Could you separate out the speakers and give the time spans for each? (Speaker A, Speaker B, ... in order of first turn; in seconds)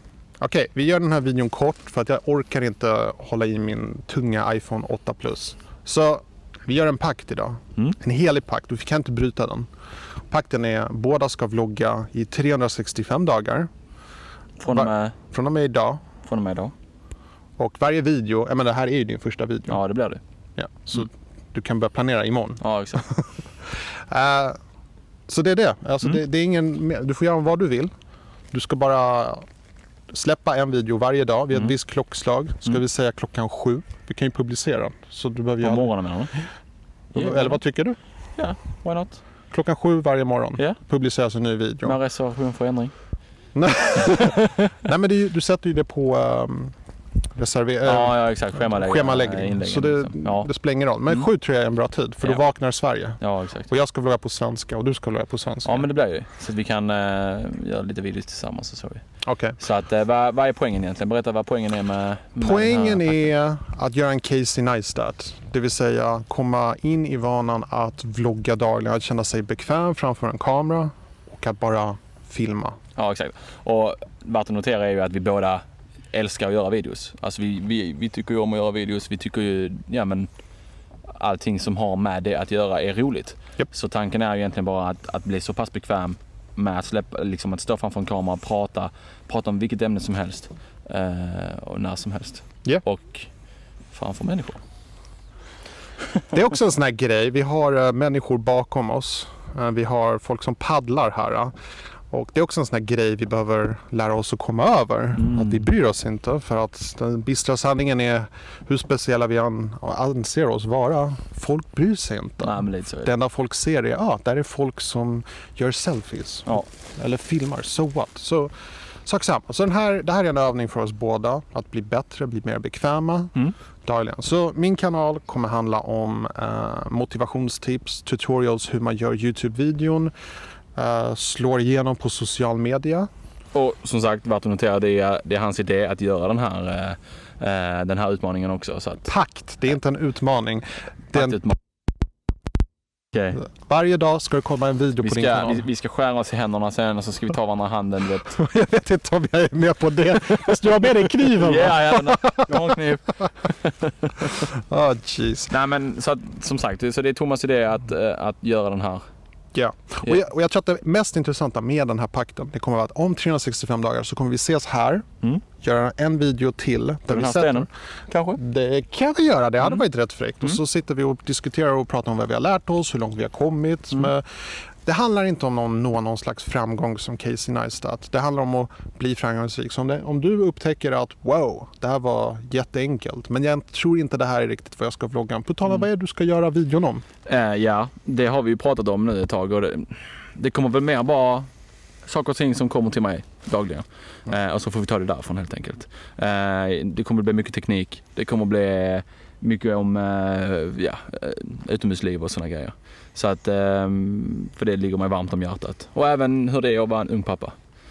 Speaker A: 0.4-9.7, 10.3-13.7, 14.7-16.0, 17.6-19.8, 20.6-23.2, 24.1-24.6, 25.3-27.9, 28.5-29.4, 30.1-35.9, 37.1-38.0, 39.5-42.0, 43.5-46.7, 47.3-55.9, 59.2-59.6, 62.4-72.8, 96.3-101.5, 102.1-118.5, 119.0-123.3, 123.8-130.1, 130.8-133.1, 139.1-141.4, 143.4-145.6, 148.2-152.5, 154.4-155.5, 159.6-165.1, 165.6-167.7, 168.3-174.2, 174.8-187.0
Speaker B: 14.6-15.2, 16.2-16.7, 19.7-20.2, 22.6-23.1, 35.6-36.5, 37.1-37.6, 38.4-39.2, 41.8-42.9, 47.8-50.5, 53.2-53.7, 55.6-59.0, 59.6-63.3, 73.0-80.3, 81.2-93.3, 93.9-94.6, 105.2-105.6, 112.4-113.1, 133.5-139.1, 141.1-141.6, 143.1-143.4, 145.0-148.4, 151.1-154.4, 155.5-159.0, 167.1-168.4, 187.3-191.5, 192.1-207.6